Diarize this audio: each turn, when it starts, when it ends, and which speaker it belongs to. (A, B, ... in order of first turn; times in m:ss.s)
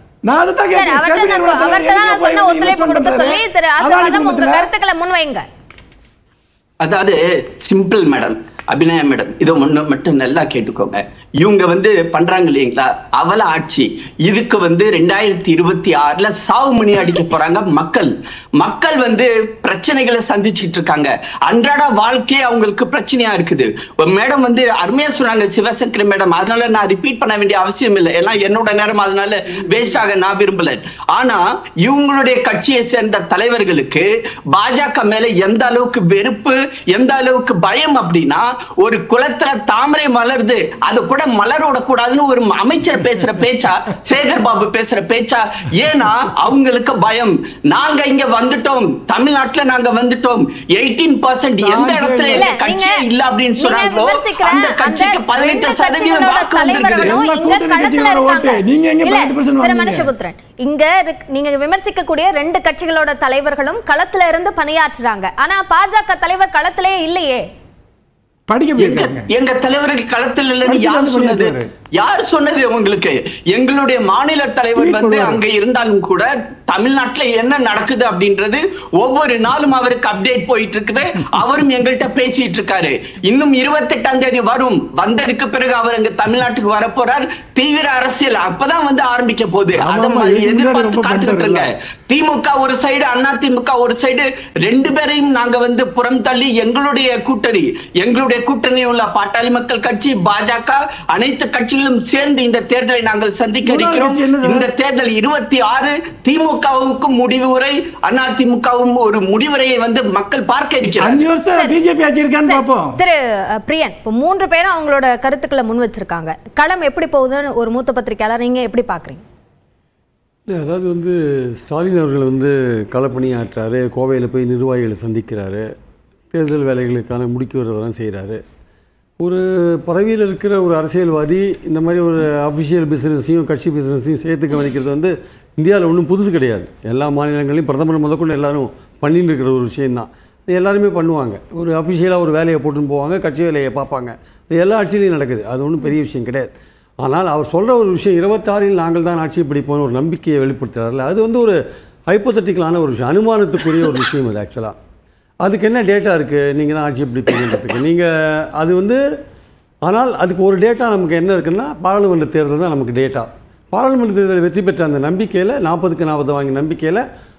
0:00.2-0:04.7 A
0:00.7-0:05.5 B
0:06.8-0:57.2 C
0:51.6-0:52.6 A
0:52.3-0:53.0 B
0:53.6-1:07.4 B
0:57.0-1:00.1 A
1:08.5-1:09.2 A
1:08.8-1:51.2 C
1:10.7-1:11.7 A
1:14.8-1:15.4 A
1:29.8-1:31.7 A
1:43.7-1:44.7 A
1:50.8-1:53.0 A
1:51.5-1:51.8 B
1:52.4-1:59.2 B
2:00.5-2:05.7 D
2:06.3-2:08.4 D
2:09.2-2:26.5 D
2:27.0-2:34.8 D
2:35.4-2:39.0 D
2:39.8-2:47.0 D